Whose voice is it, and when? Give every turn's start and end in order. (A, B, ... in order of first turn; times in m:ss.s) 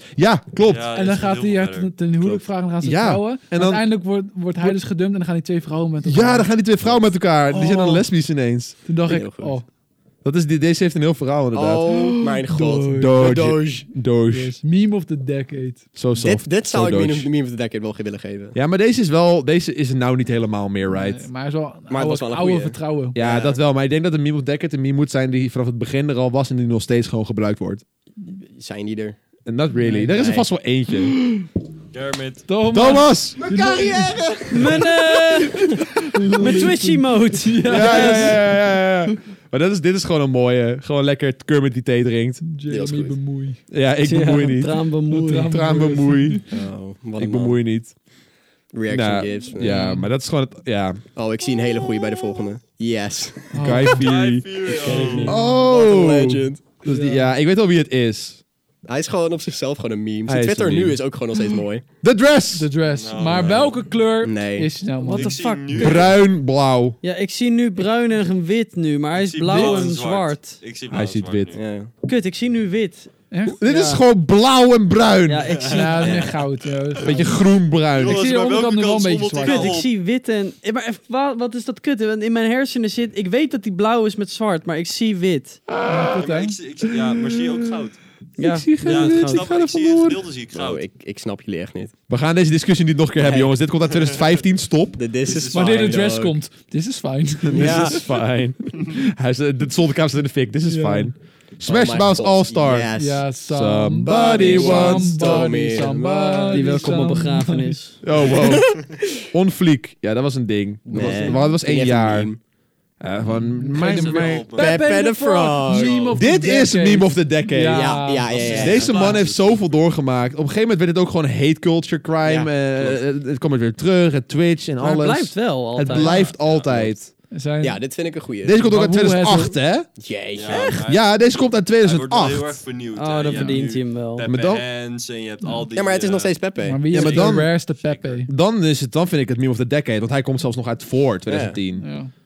0:00.2-0:00.9 A
0:00.7-0:02.1 B
0:00.9-0:06.6 C
0:02.8-0:03.8 A
0:06.0-0:08.8 A
0:07.5-0:08.0 C
0:08.8-0:09.6 C
0:09.0-0:09.6 D
0:10.2-0:11.9 A
0:11.5-0:13.8 D
0:11.9-0:13.3 C
0:12.9-0:14.6 A
0:14.3-0:16.0 C
0:16.0-0:17.3 A
0:16.2-0:18.6 D
0:18.5-0:21.2 A
0:20.9-0:23.2 C
0:21.9-0:23.6 D
0:23.1-0:27.8 A
0:28.4-0:29.2 D
0:29.4-0:31.2 A
0:29.8-0:30.2 C
0:30.1-0:30.4 D
0:31.1-0:31.4 C
0:31.9-0:32.5 B
0:32.5-0:34.9 C
0:32.7-0:33.4 A
0:33.4-0:34.9 D
0:34.5-0:35.7 E
0:35.6-0:39.2 C
0:36.4-0:38.4 E
0:37.6-0:42.4 A
0:42.4-0:43.6 C
0:42.7-0:43.2 D
0:43.7-0:44.8 A
0:44.0-0:45.8 E
0:45.1-0:46.5 C
0:45.5-0:46.4 A
0:46.5-0:47.6 D
0:47.2-0:47.9 A
0:48.7-0:49.9 D
0:48.9-0:51.0 A
0:49.6-0:50.0 C
0:51.2-0:53.8 D
0:53.5-0:54.1 C
0:53.6-0:58.4 A
0:53.9-0:55.3 B
0:54.6-0:56.6 D
0:54.8-0:55.5 C
0:55.0-0:55.2 E
0:56.8-0:57.3 C
0:58.8-1:01.8 D
1:00.2-1:01.0 A
1:02.0-1:02.7 A
1:02.5-1:05.4 C
1:02.9-1:03.9 B
1:04.2-1:04.7 D
1:05.0-1:06.2 E
1:05.0-1:06.1 B
1:05.7-1:07.0 A
1:07.0-1:10.6 E
1:09.2-1:11.6 B
1:09.5-1:09.8 C
1:10.9-1:11.6 A
1:11.5-1:11.9 D
1:12.0-1:13.1 E
1:13.3-1:14.0 C
1:13.4-1:15.7 A
1:15.2-1:16.3 E
1:15.5-1:16.4 B
1:15.7-1:17.4 C
1:17.0-1:18.2 A
1:18.0-1:19.9 B
1:18.0-1:19.8 C
1:19.4-1:25.6 E
1:25.8-1:26.6 C
1:26.2-1:28.0 B
1:28.4-1:29.5 E
1:28.4-1:30.2 A
1:28.8-1:30.8 B
1:30.5-1:31.9 D
1:32.1-1:35.0 A
1:33.2-1:33.6 D
1:35.0-1:36.4 D
1:35.2-1:36.1 B
1:35.5-1:38.0 C
1:37.5-1:42.9 A
1:37.5-1:38.0 D
1:40.7-1:41.1 C
1:41.6-1:43.3 D
1:42.9-1:47.8 C
1:43.5-1:45.4 A
1:44.0-1:46.9 D
1:46.5-1:48.0 E
1:48.0-1:52.3 A
1:48.2-1:48.9 D
1:50.9-1:52.4 D
1:53.0-1:54.5 A
1:53.5-1:58.5 C
1:53.8-1:54.8 B
1:54.5-1:56.1 D
1:54.8-1:55.4 E
1:55.7-1:56.2 B
1:56.1-2:07.1 A
1:57.6-1:59.2 D
1:58.2-1:59.6 B
2:02.2-2:03.0 D
2:04.8-2:06.3 E
2:06.0-2:06.9 B
2:07.3-2:07.8 C
2:07.6-2:08.6 D
2:08.4-2:09.9 A
2:08.6-2:09.6 C
2:10.0-2:10.8 D
2:10.3-2:11.1 B
2:10.8-2:12.6 A
2:11.8-2:18.2 B
2:13.0-2:14.3 E
2:13.3-2:13.6 C
2:14.2-2:14.6 A
2:15.7-2:17.4 D
2:16.6-2:18.3 C
2:16.9-2:17.6 A
2:18.3-2:21.8 A
2:21.3-2:21.6 D
2:21.8-2:22.1 C